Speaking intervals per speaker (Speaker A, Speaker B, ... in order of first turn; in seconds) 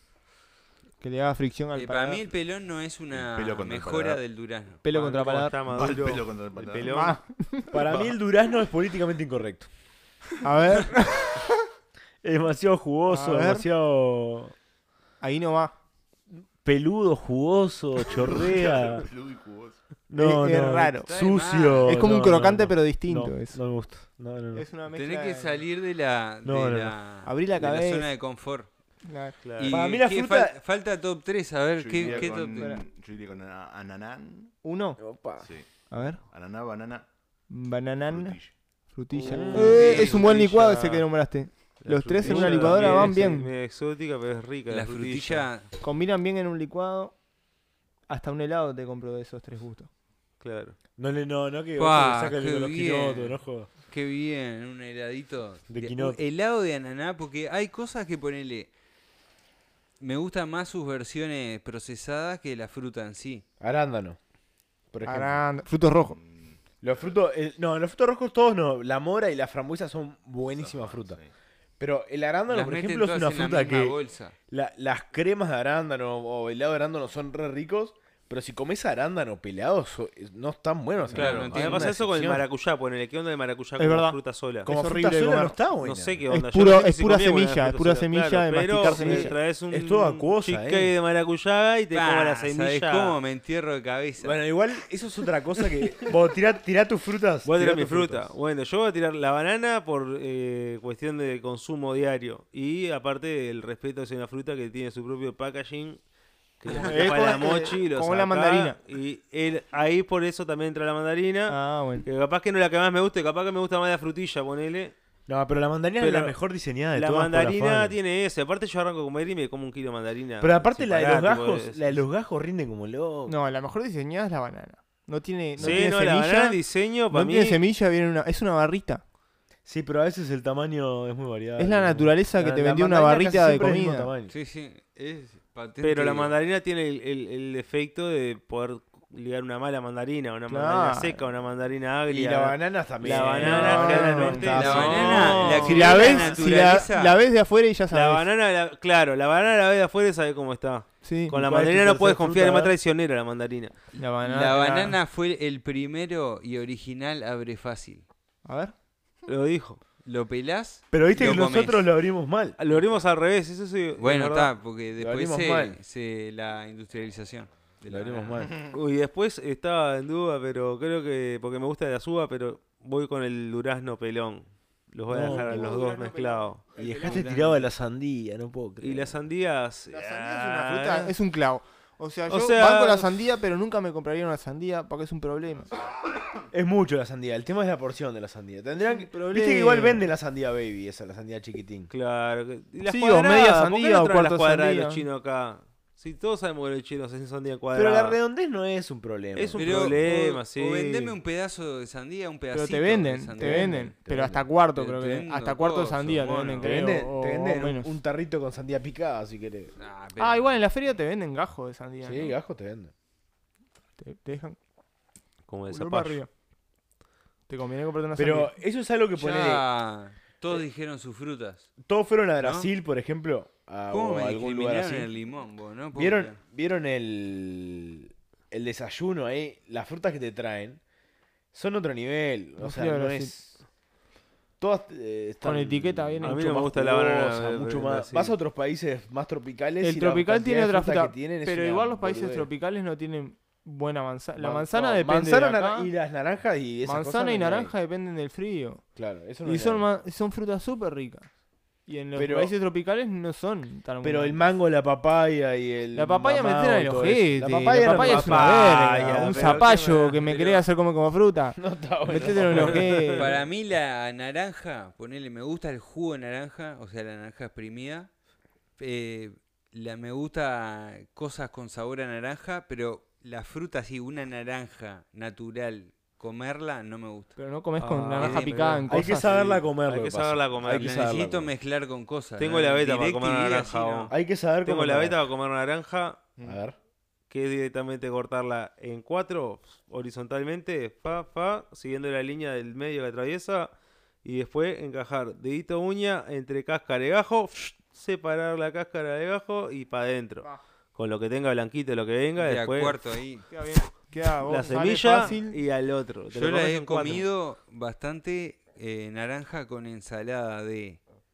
Speaker A: 1.0-2.3, 4.8-6.0, 6.9-7.8, 10.4-11.6, 13.1-13.7, 15.2-15.7, 20.2-21.1, 21.9-23.6, 24.5-25.6, 27.2-28.1, 29.1-29.4, 32.0-32.8, 34.6-35.0, 35.9-36.2, 37.5-38.4, 38.9-43.5, 45.8-47.1, 48.1-49.9, 65.0-66.2, 83.8-85.6, 86.3-89.4, 106.8-108.8, 111.5-112.1, 123.3-129.0, 131.6-134.1, 140.5-141.2, 143.1-148.3, 151.0-151.4, 154.0-155.0, 158.4-158.7, 175.2-177.7, 179.9-185.8, 188.9-190.0, 192.8-195.0, 202.5-207.9, 210.2-212.4, 214.0-214.6, 215.7-216.3, 217.5-218.5, 232.6-233.3, 235.4-236.4, 239.8-245.9, 246.9-248.8, 249.4-251.3, 251.9-254.4, 255.9-263.4, 277.4-279.6, 303.5-305.6
Speaker B: 1.7-4.8, 21.1-22.1, 24.9-28.7, 29.6-32.8, 39.5-40.6, 44.7-45.7, 51.8-58.7, 60.0-63.4, 72.5-74.3, 81.1-81.8, 91.9-94.4, 134.3-136.3, 144.5-147.2, 154.2-158.1, 160.0-161.9, 164.0-168.4, 199.6-203.9, 204.7-206.9, 209.8-210.6, 219.2-221.7, 222.4-222.7, 223.9-226.4, 260.2-260.6, 263.1-268.1, 268.8-277.4, 278.1-278.9, 280.7-284.1, 302.4-303.5, 306.3-311.0
Speaker C: 3.1-4.2, 5.7-7.0, 18.1-19.8, 31.8-34.5, 35.4-37.0, 38.1-38.5, 66.1-66.6, 70.5-71.3, 81.0-82.0, 185.6-186.0
Speaker D: 4.9-7.2, 29.4-29.8, 39.1-41.0, 41.8-45.5, 50.4-50.8, 81.2-84.7, 85.8-93.2, 97.5-106.0, 106.6-114.9, 116.0-116.4, 116.9-122.0, 125.6-127.6, 135.8-146.4, 147.9-153.8, 159.3-159.8, 162.6-164.5, 168.7-177.2, 178.8-181.2, 182.3-183.1, 191.9-198.2, 199.3-201.2, 215.5-216.2, 236.2-238.3, 257.8-260.4, 262.4-262.9, 277.8-281.2, 282.4-286.3, 287.3-293.7, 294.2-303.0, 304.4-307.3
Speaker E: 7.7-9.7, 12.2-14.5, 16.6-19.1, 20.1-24.6, 26.4-27.0, 29.7-30.6, 35.0-35.5, 39.3-40.0, 42.2-43.2, 51.0-53.7, 55.7-56.2, 63.6-64.2, 64.9-65.4, 66.8-71.2, 71.8-74.0, 74.5-82.5, 84.7-86.2, 88.8-90.9, 94.2-98.3, 106.7-107.3, 115.3-118.0, 120.4-123.4, 129.7-134.3, 142.1-146.2, 151.3-152.7, 160.9-162.6, 165.0-165.8, 167.9-168.5, 175.1-175.6, 176.8-179.2, 186.5-191.9, 197.7-200.0, 203.4-204.5, 206.6-209.7, 212.0-212.9, 218.2-219.7, 221.8-225.1, 225.9-230.8, 231.5-233.6, 234.6-242.5, 244.4-247.7, 249.0-249.9, 252.2-252.5, 254.0-259.7, 261.6-263.3, 278.9-281.5, 284.1-285.2, 286.4-286.8